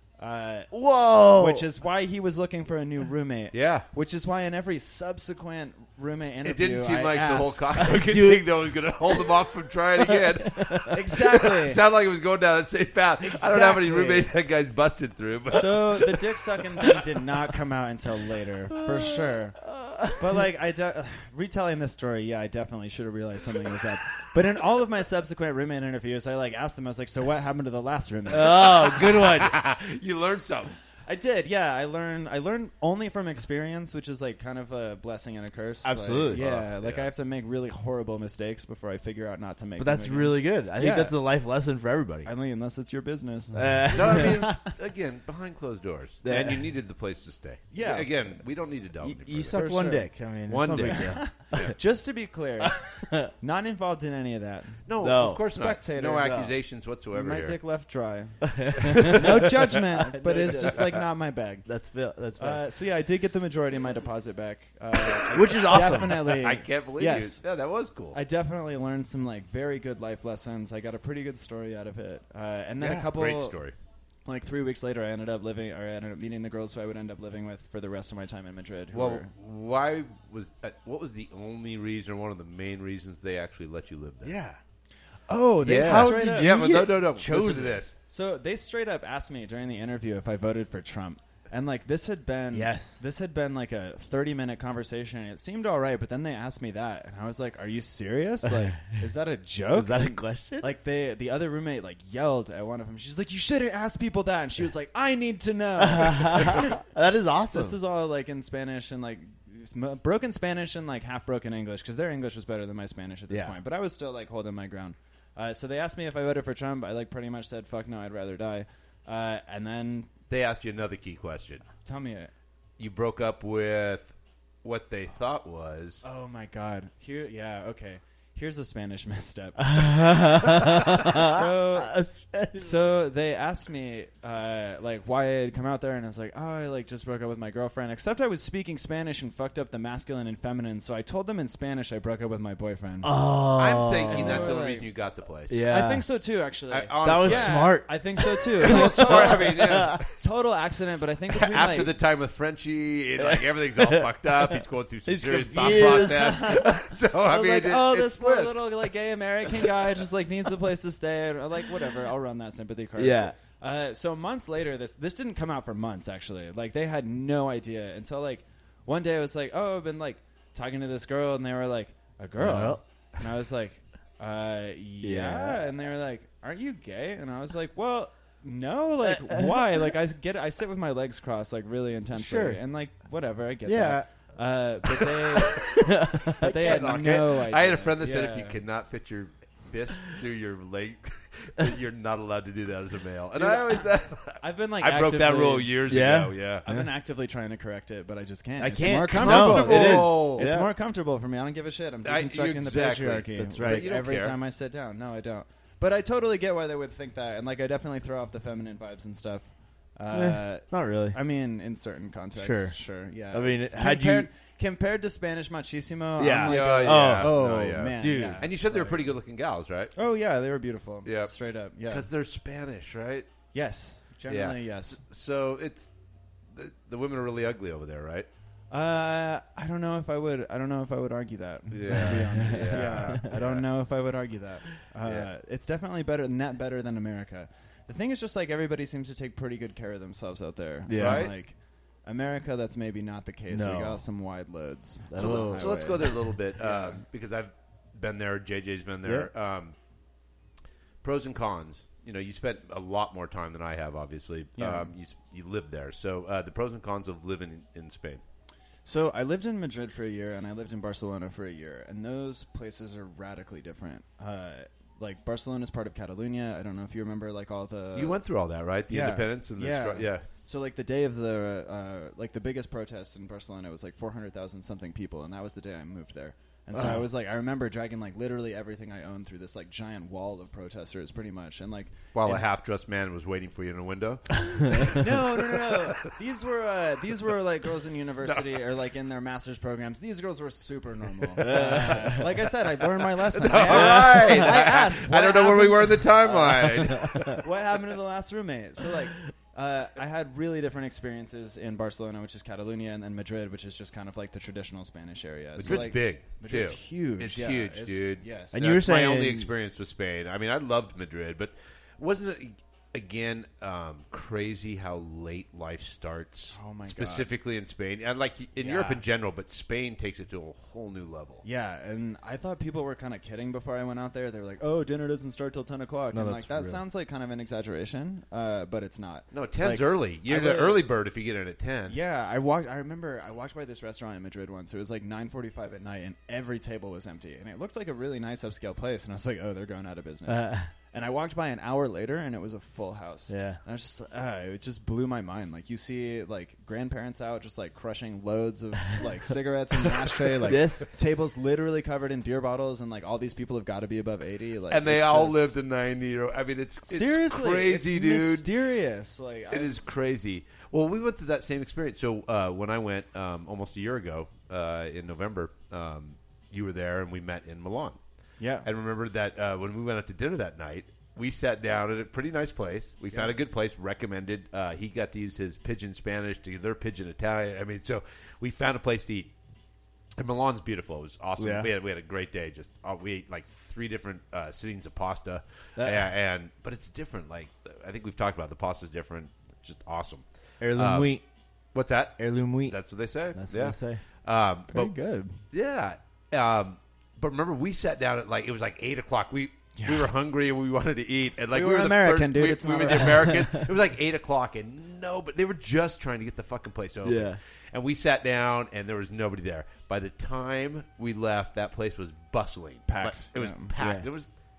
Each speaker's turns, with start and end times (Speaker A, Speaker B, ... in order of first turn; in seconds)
Speaker A: 0.2-0.7, 1.3-7.8, 10.9-11.8, 13.2-14.3, 15.5-29.0, 31.1-41.1, 42.2-44.7, 47.7-48.1, 49.5-50.1, 50.8-56.5, 57.1-61.6, 62.4-67.4, 68.1-73.5, 74.2-79.3, 85.3-86.6, 88.1-106.8, 107.5-120.1, 121.8-122.3, 126.0-131.9, 132.6-143.1, 144.1-144.9, 145.7-151.9, 155.6-185.8, 186.3-188.6, 193.3-193.8, 194.4-195.7, 196.7-219.0, 219.9-222.1, 223.5-225.0, 228.7-247.0, 254.6-254.9, 258.8-268.2, 268.9-282.4, 284.9-308.6, 316.5-317.3, 318.6-319.0, 321.4-330.8, 331.9-355.5, 356.9-359.8, 368.4-368.7, 394.7-395.4, 399.8-400.1, 401.5-403.5, 412.9-413.7
Speaker B: 0.7-1.7, 7.8-8.5, 10.0-10.9, 19.8-20.2, 28.3-29.6, 35.8-36.4, 39.8-42.3, 43.5-44.3, 46.2-46.7, 49.0-51.7, 52.6-53.3, 55.0-55.5, 56.2-56.5, 58.4-61.0, 61.6-62.6, 65.3-66.3, 84.2-84.6, 85.7-87.8, 92.5-93.0, 98.5-98.8, 99.7-100.7, 105.8-107.8, 113.3-113.5, 129.6-132.7, 143.0-144.5, 145.5-146.0, 147.0-150.0, 153.2-154.5, 155.1-156.6, 163.0-163.4, 172.4-172.8, 175.0-175.6, 179.0-179.9, 182.1-182.6, 183.6-184.1, 185.5-187.1, 195.9-196.9, 198.6-200.7, 203.3-203.8, 210.1-211.2, 212.4-212.8, 213.3-214.3, 216.2-217.4, 218.0-218.4, 231.9-233.4, 240.9-241.3, 243.5-244.0, 245.1-245.7, 249.0-249.3, 276.7-277.0, 284.6-284.9, 291.4-292.3, 293.6-294.5, 296.7-297.4, 308.5-309.5, 326.1-326.8, 340.3-340.7, 343.3-343.6, 350.3-350.9, 381.4-381.7, 385.8-386.1, 390.6-391.2, 392.2-392.8, 393.3-394.0, 402.9-403.6, 407.0-407.4, 413.8-414.1
Speaker C: 3.5-3.9, 6.4-16.2, 28.8-30.7, 36.3-37.1, 43.9-49.6, 50.5-51.7, 54.9-57.6, 58.9-59.7, 66.0-68.2, 72.8-73.7, 78.9-84.3, 85.6-87.9, 120.3-121.6, 122.8-126.0, 143.6-145.6, 146.7-147.8, 148.4-150.1, 151.3-158.7, 186.4-196.7, 198.8-200.5, 202.0-204.3, 216.4-219.9, 221.0-221.3, 221.9-223.3, 224.3-225.9, 226.5-228.3, 231.7-233.6, 240.9-241.3, 245.2-249.7, 251.0-258.2, 267.9-270.2, 282.1-286.1, 293.2-297.4, 305.6-321.4, 329.3-332.0, 354.7-358.5, 359.5-368.0, 368.6-379.3, 380.1-391.2, 391.7-394.9, 395.5-414.3